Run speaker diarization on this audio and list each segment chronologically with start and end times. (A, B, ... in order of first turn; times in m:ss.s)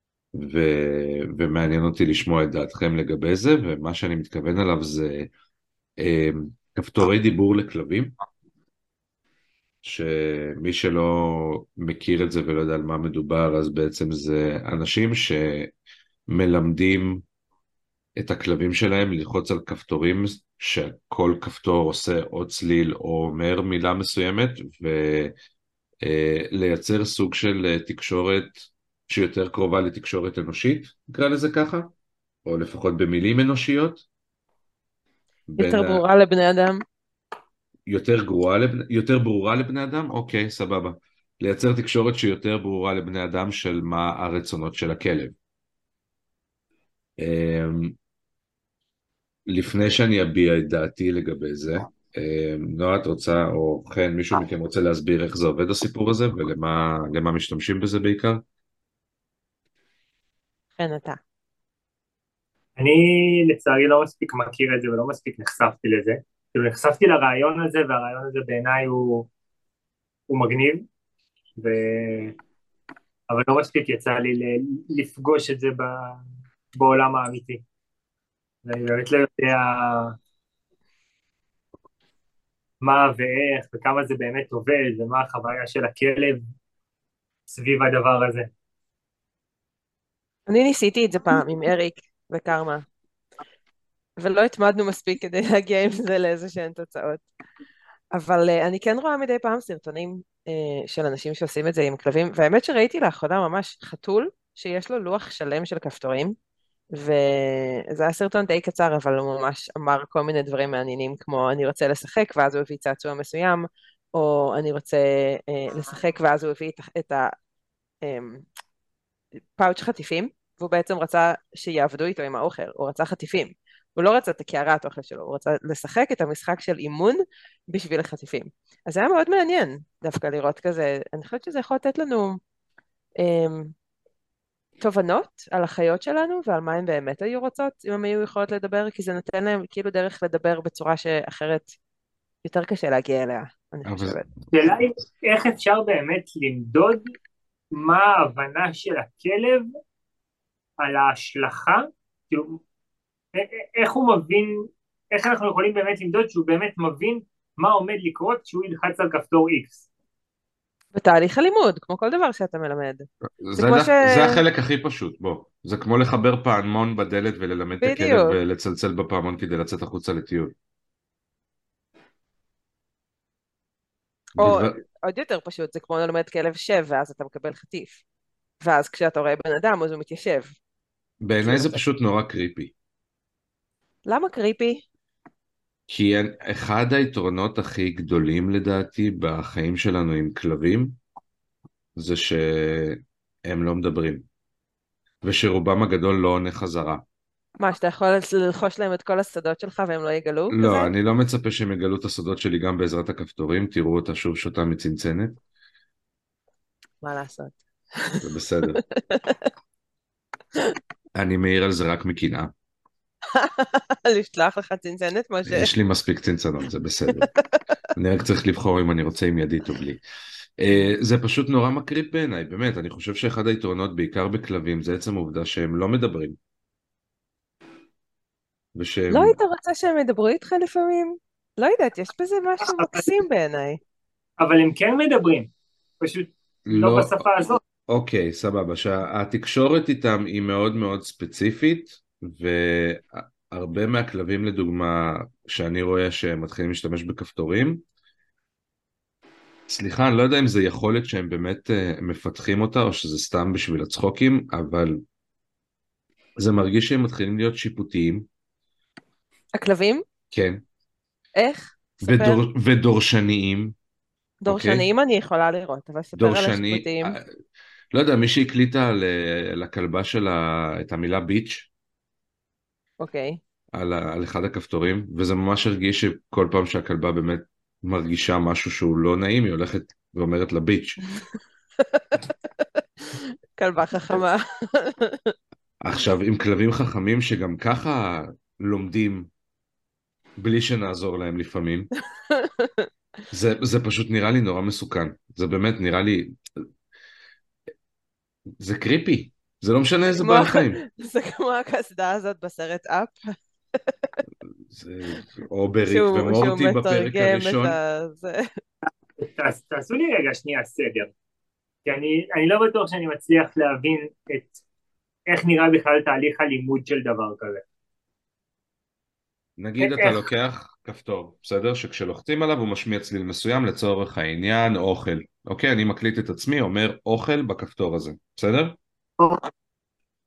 0:00.3-0:05.3 A
0:06.0-0:08.1 A
0:09.8-0:15.7 A
0:16.3-0:17.2 A
0:18.2-0:25.3 A
0:26.0-0:31.9 A
0:32.4-0:34.0 A
0:35.5-0:36.0 A
0:35.6-0:36.8 B
0:37.9-0:45.3 A
0:47.2-0:48.0 A
0:49.5-0:58.4 A
1:00.8-1:01.2 B
1:02.8-1:09.3 C
1:10.3-1:10.8 C
1:11.6-1:12.4 C
1:13.3-1:16.2 C
1:16.7-1:17.6 C
1:18.6-1:20.2 C
1:22.8-1:26.4 C
1:27.5-1:28.5 C
1:30.5-1:32.8 B
1:34.2-1:37.2 B
1:38.1-1:46.4 B
1:46.9-1:57.3 B
1:58.0-1:58.4 B
1:59.6-2:12.4 B
2:13.2-2:13.7 B
2:14.8-2:21.7 B
2:22.4-2:24.2 B
2:23.8-2:24.2 A
2:24.5-2:27.1 C
2:27.7-2:29.7 C
2:30.8-2:32.6 C
2:33.3-2:39.8 C
2:40.9-2:44.4 B
2:43.4-2:50.5 A
2:47.8-2:48.4 B
2:54.4-2:54.8 A
2:54.4-2:58.0 B
2:58.6-3:00.5 B
3:01.2-3:02.7 A
3:01.4-3:01.8 B
3:04.1-3:04.8 B
3:05.9-3:11.0 A
3:12.0-3:14.2 A
3:15.2-3:17.0 A
3:17.6-3:20.9 B
3:20.5-3:25.4 A
3:27.0-3:28.2 B
3:28.2-3:28.8 A
3:28.7-3:29.5 B
3:31.1-3:32.5 A
3:33.3-3:35.7 B
3:35.4-3:37.3 A
3:38.0-3:40.0 A
3:40.6-3:46.4 A
3:48.7-3:49.4 A
3:49.1-3:53.8 B
3:52.7-3:53.0 C
3:54.4-3:57.6 C
3:56.7-3:57.2 A
3:57.9-4:07.8 A
4:09.7-4:15.0 A
4:16.4-4:18.2 A
4:19.6-4:20.0 B
4:20.3-4:20.6 A
4:21.4-4:22.4 B
4:22.0-4:23.7 A
4:24.4-4:27.2 B
4:24.5-4:24.8 A
4:26.2-4:27.2 A
4:27.9-4:31.7 A
4:33.0-4:33.4 B
4:33.7-4:41.0 A
4:43.0-4:45.3 B
4:45.8-4:49.3 A
4:50.4-4:51.9 A
4:52.3-4:52.9 B
4:53.3-4:56.6 A
4:58.6-5:00.8 A
5:00.1-5:03.1 B
5:03.9-5:04.1 B
5:04.7-5:07.8 A
5:05.9-5:08.5 B
5:09.2-5:11.1 C
5:11.8-5:14.6 C
5:15.3-5:17.6 C
5:19.6-5:28.8 A
5:19.8-5:20.2 C